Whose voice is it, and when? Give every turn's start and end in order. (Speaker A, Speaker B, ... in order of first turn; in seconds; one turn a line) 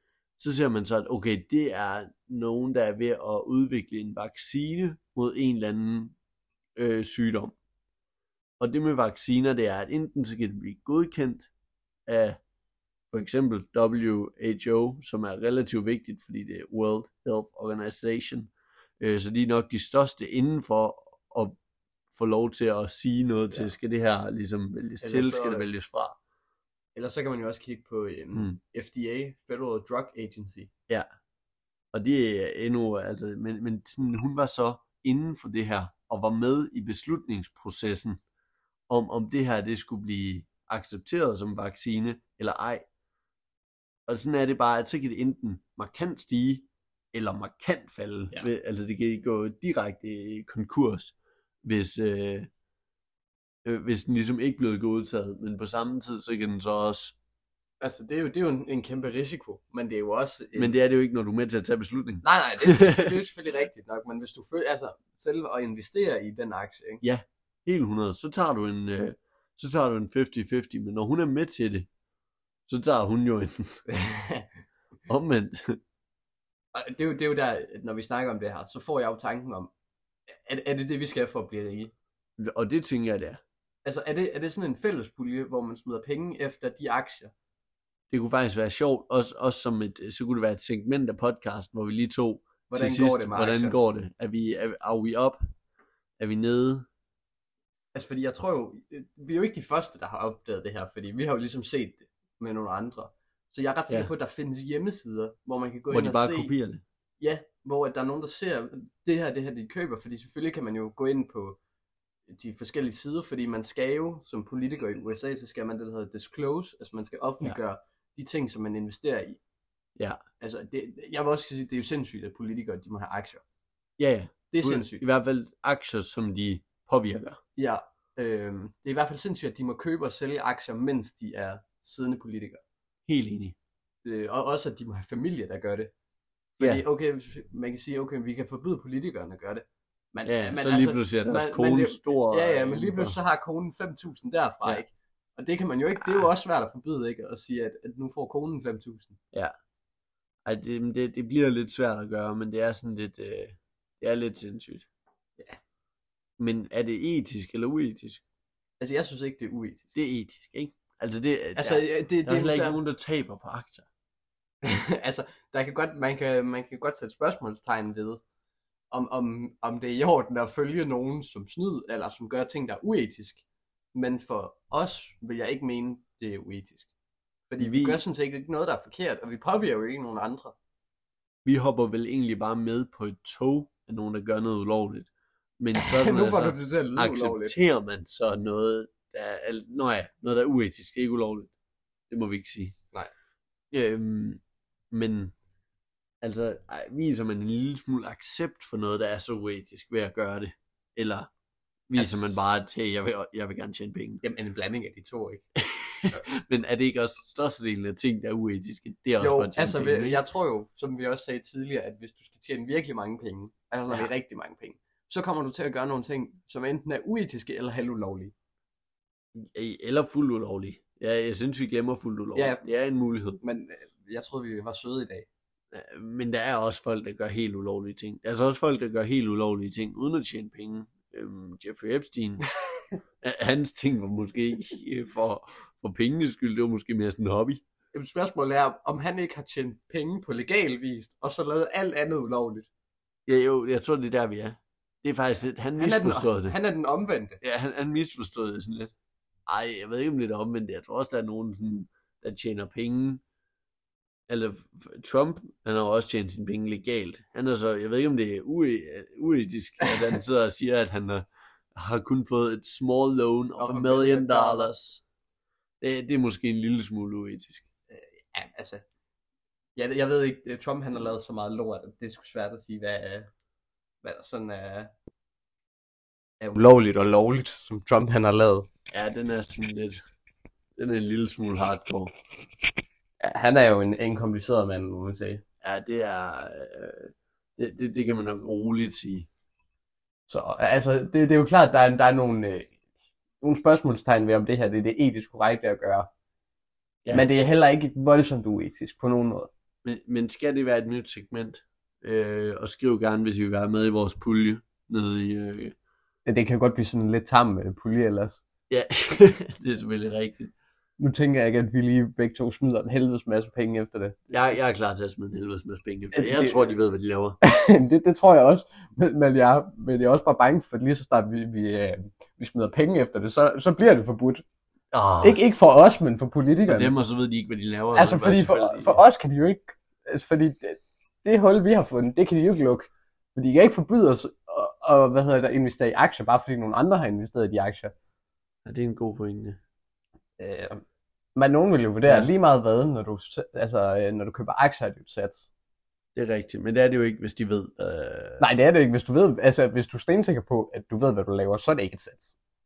Speaker A: 0.4-6.2
Speaker A: 6.8-7.6
Speaker A: 8.6-11.5
Speaker A: 12.1-12.4
Speaker A: 13.1-21.6
Speaker A: 22.1-26.2
Speaker B: 25.0-25.7
Speaker B: 26.9-30.7
Speaker A: 28.3-28.6
Speaker A: 31.9-38.2
Speaker A: 38.9-42.9
Speaker A: 44.1-52.5
Speaker A: 53.6-57.2
Speaker B: 57.8-60.7
Speaker A: 60.6-63.1
Speaker B: 62.2-67.0
Speaker A: 67.0-71.9
Speaker A: 72.7-73.8
Speaker B: 73.9-74.5
Speaker A: 75.1-75.8
Speaker B: 76.7-79.7
Speaker B: 80.3-81.9
Speaker A: 82.4-83.4
Speaker B: 83.8-87.3
Speaker A: 88.1-95.4
Speaker B: 92.7-93.8
Speaker A: 96.2-96.9
Speaker B: 97.9-106.5
Speaker A: 105.9-106.8
Speaker B: 107.2-111.6
Speaker B: 112.3-119.4
Speaker B: 120.4-123.4
Speaker A: 124.0-127.4
Speaker B: 124.5-125.0
Speaker B: 127.6-132.6
Speaker A: 133.1-133.6
Speaker B: 134.1-135.9
Speaker B: 136.6-149.2
Speaker A: 140.3-143.2
Speaker A: 146.0-146.3
Speaker A: 150.5-154.9
Speaker A: 156.4-158.2
Speaker B: 158.8-159.9
Speaker A: 159.9-163.9
Speaker B: 161.6-162.8
Speaker B: 164.6-168.2
Speaker B: 168.9-173.4
Speaker B: 173.9-176.9
Speaker B: 177.5-180.5
Speaker A: 177.6-178.0
Speaker A: 181.4-191.5
Speaker B: 185.8-187.6
Speaker A: 192.1-192.8
Speaker A: 193.7-195.3
Speaker A: 196.2-201.3
Speaker A: 201.9-204.2
Speaker B: 202.0-202.3
Speaker B: 204.2-205.4
Speaker A: 205.6-210.2
Speaker B: 209.2-218.3
Speaker A: 219.4-223.4
Speaker B: 222.4-222.6
Speaker B: 223.4-225.3
Speaker A: 225.7-232.5
Speaker A: 233.2-237.6
Speaker B: 237.9-242.7
Speaker A: 243.3-246.6
Speaker B: 245.8-247.4
Speaker A: 247.4-248.9
Speaker A: 249.5-253.2
Speaker A: 254.3-265.0
Speaker B: 263.6-264.7
Speaker A: 265.8-267.7
Speaker B: 267.9-268.9
Speaker B: 269.8-273.3
Speaker B: 274.0-274.9
Speaker B: 276.4-278.7
Speaker A: 278.9-280.0
Speaker A: 280.8-282.1
Speaker B: 283.2-285.4
Speaker A: 285.6-289.3
Speaker B: 290.3-292.8
Speaker B: 293.4-296.1
Speaker B: 297.1-299.5
Speaker A: 299.9-305.7
Speaker B: 306.2-308.4
Speaker A: 308.7-310.5
Speaker B: 311.0-314.2
Speaker A: 314.3-317.4
Speaker B: 316.1-316.7
Speaker B: 317.4-324.4
Speaker A: 324.9-325.5
Speaker B: 325.2-326.9
Speaker A: 326.7-329.0
Speaker B: 327.9-337.9
Speaker A: 338.7-339.6
Speaker B: 340.4-340.8
Speaker B: 341.4-345.5
Speaker A: 346.1-348.4
Speaker B: 348.4-352.3